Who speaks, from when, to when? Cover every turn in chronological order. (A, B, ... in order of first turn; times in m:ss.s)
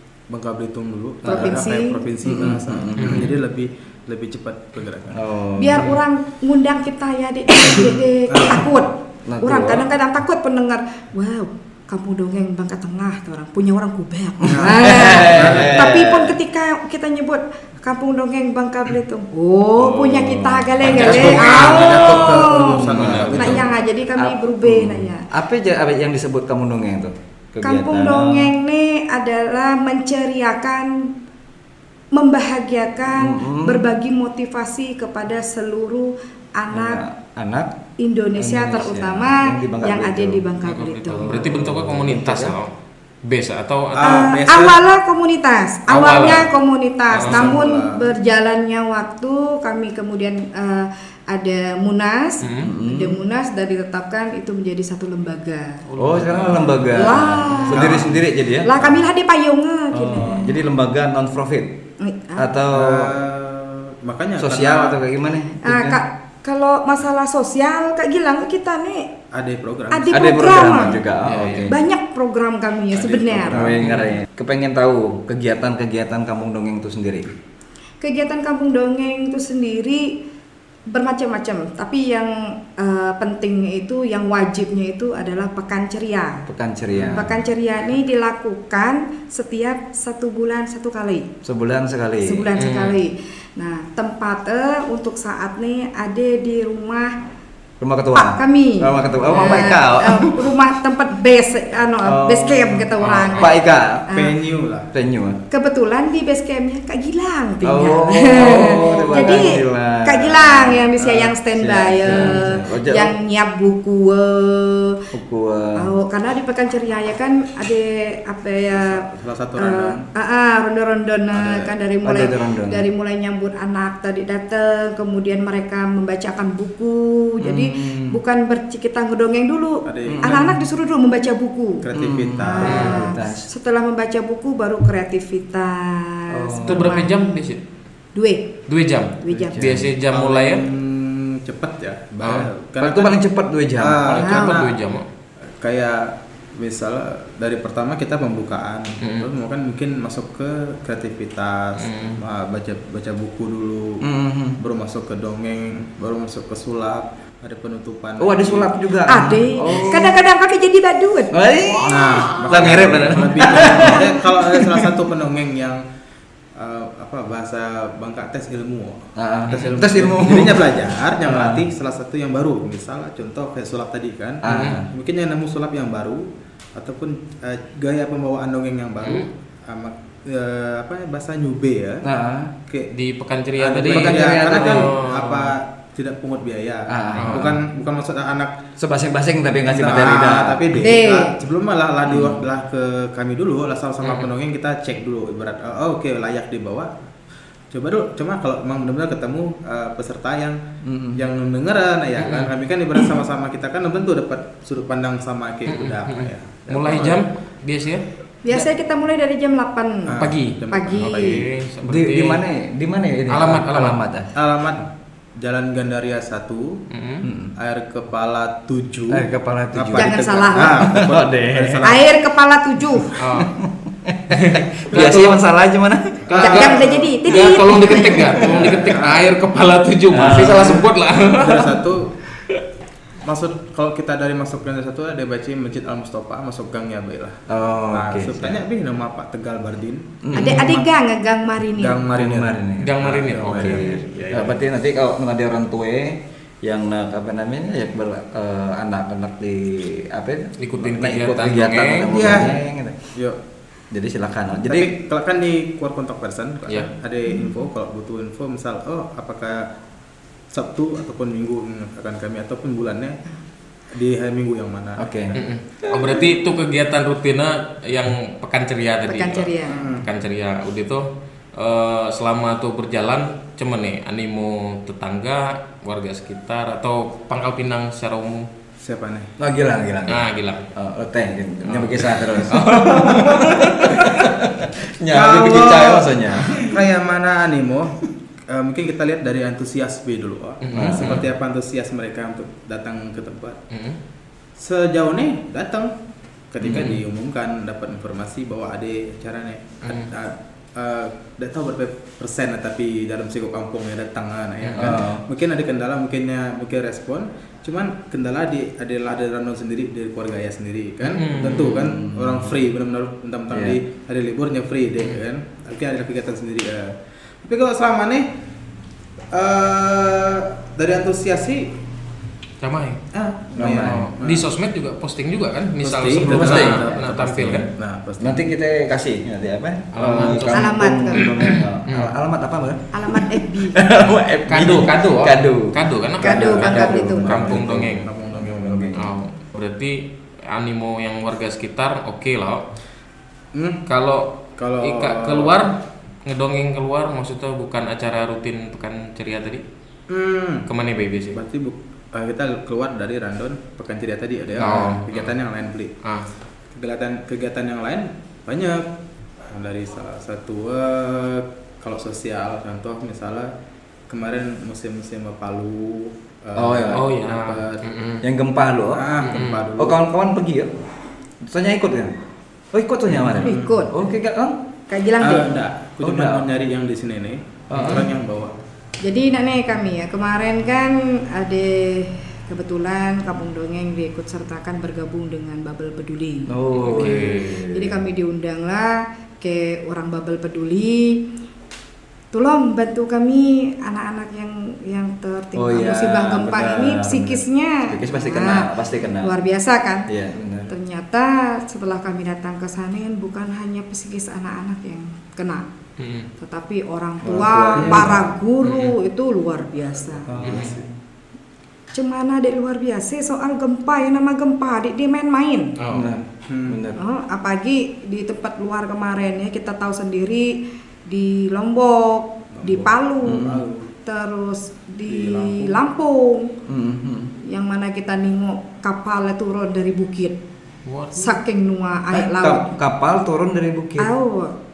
0:00.3-0:05.2 A
0:01.2-0:01.6 B
0:01.2-0:02.0 C
0:02.2-0:03.3 B
0:03.0-0:03.3 D
0:05.1-0:05.9 B
0:05.6-0:25.2 C
0:08.3-0:08.6 A
0:09.2-0:09.9 B
0:14.4-0:15.8 A
0:14.4-0:16.4 B
0:19.8-0:28.5 B
0:20.8-0:22.0 D
0:20.9-0:23.7 A
0:22.8-0:23.5 D
0:27.6-0:31.1 C
0:32.1-0:37.0 C
0:33.1-0:33.8 B
0:36.7-0:37.7 B
0:38.0-0:41.4 C
0:38.3-0:40.4 B
0:40.6-0:42.7 D
0:41.1-0:42.6 B
0:43.2-0:44.3 D
0:43.9-0:44.8 A
0:44.0-0:55.8 C
0:45.9-0:46.5 D
0:47.1-0:48.1 A
0:47.1-0:47.6 D
0:52.4-0:52.7 D
0:52.6-0:53.2 B
0:55.8-0:57.0 D
0:56.0-0:59.0 B
0:56.9-0:58.0 C
0:57.7-0:58.2 A
0:58.6-1:00.5 C
0:59.9-1:01.8 B
1:02.0-1:02.4 C
1:02.4-1:03.1 B
1:02.7-1:05.0 A
1:04.4-1:06.0 B
1:05.6-1:09.1 C
1:09.3-1:10.2 A
1:09.9-1:11.0 C
1:10.1-1:11.7 B
1:11.2-1:11.7 D
1:11.6-1:13.8 C
1:13.4-1:17.3 B
1:13.4-1:13.8 A
1:13.8-1:14.2 D
1:18.0-1:20.1 C
1:20.9-1:26.4 C
1:26.5-1:27.4 B
1:27.0-1:31.3 C
1:31.4-1:32.5 B
1:32.2-1:37.1 C
1:32.6-1:33.0 D
1:37.8-1:40.5 B
1:38.1-1:43.5 C
1:42.0-1:44.2 B
1:43.0-1:43.5 D
1:44.1-1:44.3 C
1:44.1-1:44.9 A
1:44.9-1:45.4 B
1:45.5-1:55.0 C
1:47.6-1:50.9 B
1:51.0-1:51.3 A
1:51.5-1:53.1 B
1:55.1-1:55.9 B
1:55.8-1:59.0 C
1:58.7-2:00.0 A
1:59.6-2:11.8 C
2:01.3-2:01.7 A
2:02.0-2:02.8 B
2:07.4-2:08.2 B
2:09.8-2:10.6 A
2:10.0-2:10.5 B
2:11.8-2:12.9 A
2:11.9-2:13.5 B
2:12.4-2:17.4 C
2:12.6-2:13.0 D
2:16.3-2:17.0 B
2:16.6-2:17.6 D
2:18.1-2:18.5 C
2:18.7-2:20.6 D
2:19.2-2:19.6 C
2:19.3-2:19.9 B
2:20.1-2:23.2 A
2:22.2-2:22.5 D
2:22.8-2:24.4 B
2:23.8-2:24.8 A
2:24.2-2:24.6 C
2:24.3-2:25.0 D
2:25.6-2:34.0 A
2:29.0-2:29.3 D
2:31.8-2:32.2 D
2:34.0-2:34.6 B
2:34.6-2:38.7 A
2:38.2-2:40.2 B
2:39.1-2:41.3 C
2:41.3-2:44.9 B
2:41.8-2:45.8 A
2:46.6-3:02.0 A
2:49.2-2:50.6 B
2:51.2-2:51.6 B
2:54.4-2:54.8 B
2:54.4-2:54.8 D
3:02.0-3:02.5 B
3:02.7-3:02.9 A
3:02.9-3:05.5 D
3:03.6-3:08.5 A
3:03.9-3:04.9 B
3:06.9-3:07.6 B
3:07.2-3:07.6 D
3:08.8-3:10.8 B
3:09.7-3:16.9 A
3:10.8-3:11.4 C
3:12.1-3:12.4 B
3:14.0-3:14.3 D
3:17.7-3:20.6 A
3:20.8-3:21.2 B
3:21.1-3:27.2 A
3:22.2-3:22.5 D
3:25.7-3:28.6 D
3:28.4-3:30.2 C
3:30.0-3:31.5 A
3:30.2-3:32.4 D
3:30.7-3:31.4 C
3:31.8-3:34.3 B
3:33.3-3:34.0 D
3:34.3-3:36.8 A
3:36.9-3:37.2 D
3:37.2-3:37.5 B
3:37.6-3:42.0 A
3:39.1-3:41.9 B
3:40.0-3:40.9 C
3:41.8-3:43.1 C
3:43.2-3:43.5 D
3:43.3-3:46.6 B
3:44.3-3:45.4 D
3:46.2-3:47.4 A
3:46.3-3:51.7 D
3:46.4-3:48.4 C
3:47.8-3:48.9 B
3:48.3-3:49.4 A
3:50.1-3:50.9 B
3:50.3-3:52.1 A
3:53.2-4:00.8 A
3:57.5-3:58.6 B
4:00.2-4:00.8 B
4:00.3-4:02.0 C
4:01.8-4:04.6 A
4:02.1-4:13.0 B
4:02.8-4:04.5 D
4:10.6-4:12.5 D
4:12.1-4:12.6 A
4:13.1-4:13.4 A
4:13.9-4:14.9 B
4:14.6-4:19.7 A
4:20.5-4:23.2 A
4:23.9-4:25.4 A
4:25.0-4:25.3 B
4:25.3-4:38.5 D
4:25.9-4:26.2 B
4:29.0-4:29.9 C
4:29.7-4:30.1 A
4:38.8-4:39.3 A
4:39.4-4:46.8 B
4:40.1-4:40.6 D
4:41.6-4:43.2 D
4:45.1-4:53.6 A
4:50.6-4:51.3 D
4:50.7-4:51.2 B
4:53.7-4:54.0 D
4:54.6-4:55.9 A
4:56.5-5:18.3 A
4:56.6-4:56.9 B
4:56.6-4:57.0 D
4:59.8-5:00.1 D
5:04.6-5:05.0 D
5:04.8-5:05.2 B
5:11.0-5:11.9 D
5:11.5-5:12.5 B
5:13.5-5:13.8 B
5:19.3-5:21.7 A
5:22.6-5:23.0 D
5:23.1-5:24.5 A
5:23.6-5:24.0 B
5:23.7-5:27.7 D
5:25.8-5:28.4 A
5:26.2-5:27.1 B
5:28.2-5:39.1 B
5:29.9-5:32.1 D
5:30.5-5:31.4 C
5:32.9-5:33.8 C
5:34.5-5:38.1 D
5:36.2-5:37.3 C
5:36.3-5:39.1 A
5:38.9-5:42.6 D
5:43.5-5:43.8 A
5:43.8-5:49.6 D
5:44.6-5:45.6 A
5:50.1-5:50.7 A
5:50.6-5:51.4 D
5:51.3-5:55.9 A
5:54.6-5:55.3 D
5:56.7-5:58.8 A
5:59.5-6:03.5 A
6:04.1-6:07.8 A
6:06.6-6:07.0 B
6:06.9-6:08.2 D
6:08.2-6:09.1 B
6:08.9-6:10.0 A
6:09.2-6:09.7 D
6:09.7-6:10.7 B
6:11.4-6:12.1 B
6:12.7-6:14.6 B
6:13.3-6:13.8 A
6:13.4-6:13.9 C
6:14.9-6:15.5 C
6:15.2-6:18.5 A
6:16.0-6:16.5 B
6:17.7-6:18.1 B
6:17.7-6:18.0 D
6:19.0-6:31.2 C
6:26.5-6:28.1 B
6:26.8-6:27.6 D
6:32.3-6:40.1 C
6:35.5-6:39.3 B
6:40.1-6:40.7 B
6:40.7-6:45.6 C
6:46.0-6:46.3 D
6:46.4-6:50.6 C
6:47.2-6:48.3 B
6:48.6-6:49.0 D
6:50.3-6:50.9 B
6:50.4-6:50.8 A
6:50.4-6:50.7 D
6:51.9-6:55.7 C
6:55.8-6:56.2 D
6:55.9-6:57.0 B
6:56.5-6:56.8 A
6:57.0-7:03.5 C
7:02.5-7:03.9 A
7:03.2-7:03.6 B
7:04.0-7:06.5 C
7:05.0-7:05.8 A
7:06.7-7:07.3 B
7:07.4-7:10.4 C
7:10.8-7:11.4 D
7:11.1-7:12.7 C
7:12.1-7:14.1 B
7:14.0-7:14.5 C